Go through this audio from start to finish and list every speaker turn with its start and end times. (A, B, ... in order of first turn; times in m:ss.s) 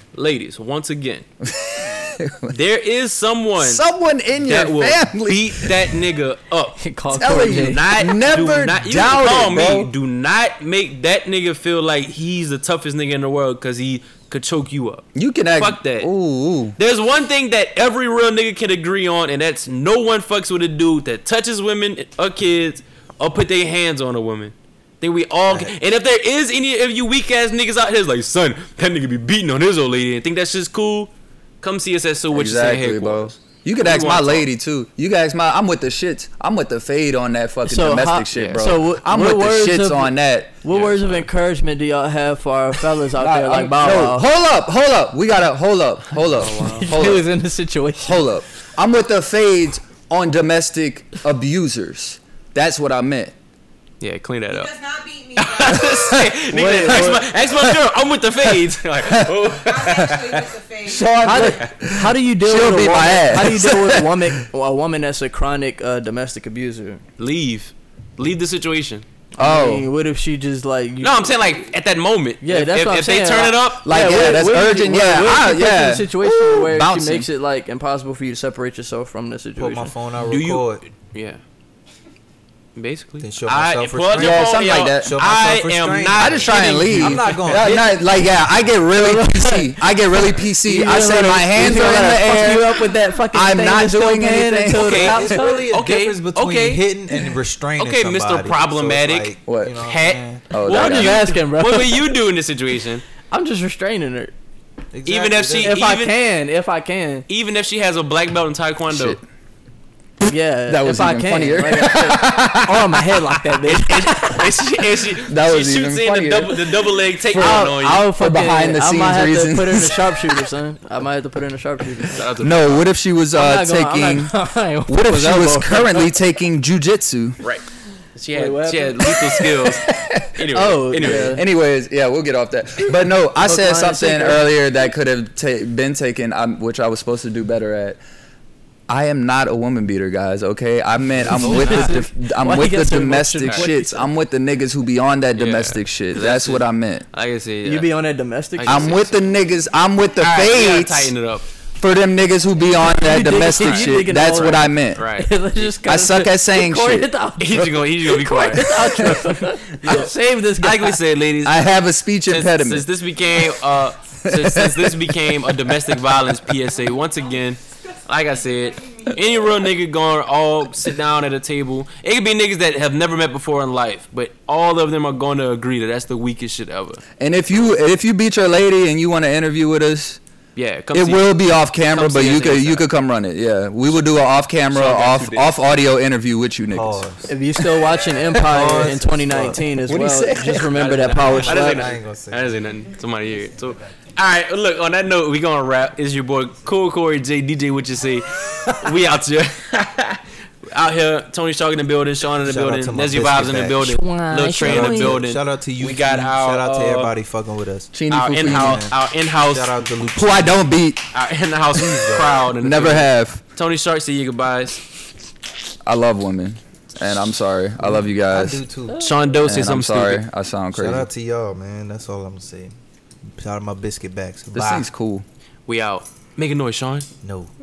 0:00.1-0:01.2 A
0:01.4-0:02.6 B
0:02.5-0:16.1 A
0:03.6-0:05.9 B
0:06.8-0:07.8 C
0:07.1-0:09.9 B
0:15.1-0:16.8 B
0:16.8-0:34.5 A
0:32.3-0:40.5 B
0:37.6-0:44.3 C
0:38.3-0:38.8 A
0:40.7-0:41.3 A
0:43.2-0:47.3 B
0:46.3-0:48.3 C
0:46.4-0:47.0 A
0:48.0-0:53.3 B
0:54.0-0:54.7 A
0:54.5-0:56.3 D
0:55.3-1:00.6 A
0:56.5-0:57.3 C
0:59.6-1:01.2 D
1:00.8-1:04.3 B
1:01.2-1:07.0 C
1:01.4-1:01.9 A
1:07.2-1:09.0 A
1:09.3-1:11.4 C
1:09.4-1:09.9 B
1:11.0-1:13.9 A
1:12.4-1:19.9 C
1:13.8-1:17.3 B
1:19.6-1:20.8 E
1:20.2-1:21.4 A
1:22.7-1:27.9 A
1:23.2-1:27.8 E
1:24.1-1:25.1 B
1:26.2-1:35.1 B
1:28.9-1:35.7 C
1:34.7-1:36.9 A
1:34.8-1:40.5 E
1:37.8-1:43.0 A
1:39.4-1:39.8 B
1:40.5-1:41.2 B
1:40.6-1:42.2 C
1:43.3-1:44.3 C
1:44.9-1:45.8 E
1:45.0-1:46.1 A
1:45.6-1:47.2 C
1:47.3-1:49.2 A
1:48.9-1:49.2 B
1:50.2-1:54.8 C
1:50.7-1:53.1 B
1:53.6-1:58.1 A
1:55.3-1:56.6 B
1:57.3-2:02.2 C
1:57.4-2:00.2 B
2:02.1-2:02.9 A
2:02.4-2:04.3 B
2:03.3-2:06.2 C
2:04.8-2:07.4 B
2:07.4-2:11.4 A
2:08.3-2:09.3 C
2:09.2-2:10.3 B
2:10.4-2:11.4 C
2:11.0-2:18.0 B
2:12.9-2:14.5 C
2:18.9-2:27.0 B
2:21.2-2:24.1 C
2:21.5-2:21.9 A
2:25.3-2:27.9 A
2:27.6-2:29.1 C
2:28.5-2:29.1 A
2:28.6-2:31.1 B
2:30.2-2:31.5 A
2:31.8-2:35.1 B
2:32.9-2:41.0 C
2:33.6-2:35.7 A
2:35.8-2:37.1 B
2:37.4-2:41.8 A
2:41.4-2:42.9 B
2:42.3-2:57.0 A
2:44.2-2:45.7 B
2:48.7-2:49.1 D
2:57.2-3:00.2 B
3:00.6-3:01.3 A
3:00.9-3:07.0 B
3:01.9-3:02.9 A
3:04.7-3:05.6 A
3:06.7-3:07.4 E
3:07.3-3:11.9 C
3:08.4-3:09.6 E
3:09.8-3:10.7 B
3:10.5-3:27.1 A
3:11.0-3:12.6 E
3:22.4-3:23.9 E
3:23.8-3:25.2 C
3:24.6-3:30.6 E
3:27.9-3:28.9 B
3:28.1-3:29.7 A
3:30.1-3:31.0 B
3:31.1-3:34.8 A
3:31.8-3:32.5 E
3:32.6-3:33.4 B
3:35.8-3:38.6 B
3:37.8-3:39.0 E
3:38.9-3:39.5 C
3:39.0-3:40.2 A
3:39.4-3:41.1 B
3:40.7-3:42.7 E
3:43.3-3:44.9 E
3:44.5-3:45.2 B
3:45.7-3:47.1 A
3:47.2-3:47.5 E